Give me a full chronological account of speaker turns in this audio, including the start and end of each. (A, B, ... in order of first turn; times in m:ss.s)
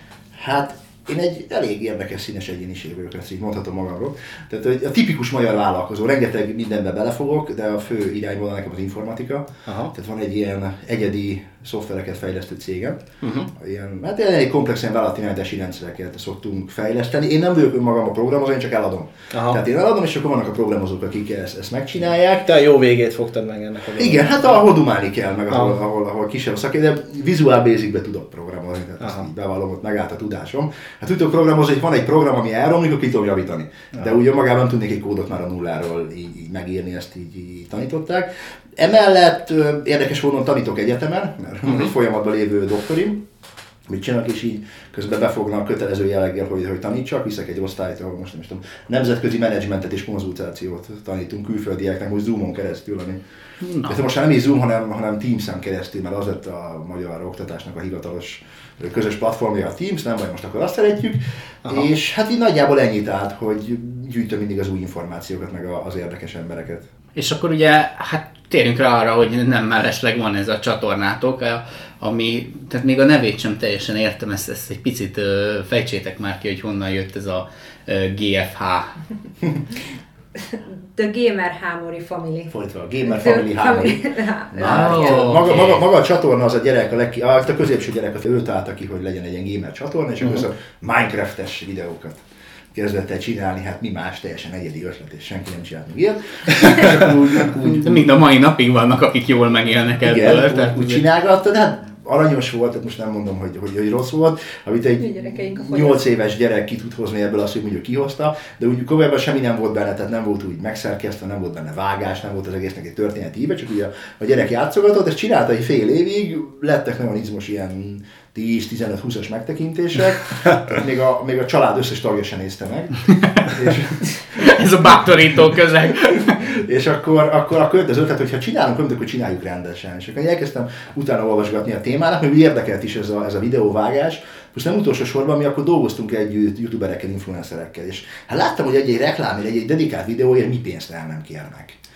0:00.4-0:22.5 A
0:09.7-0:09.9 B
0:13.2-0:13.5 B
0:19.3-0:19.6 B
0:22.4-0:24.6 B
0:24.0-0:43.2 A
0:43.9-0:53.2 A
0:53.6-0:53.9 C
0:53.8-1:06.9 A
1:07.2-1:18.9 C
1:20.4-1:22.5 D
1:22.5-1:32.2 A
1:23.0-1:25.0 D
1:24.6-1:25.8 C
1:32.7-1:38.1 A
1:37.6-1:41.0 C
1:40.0-2:04.5 A
1:45.0-1:46.0 D
2:04.4-2:06.4 C
2:06.3-2:21.8 A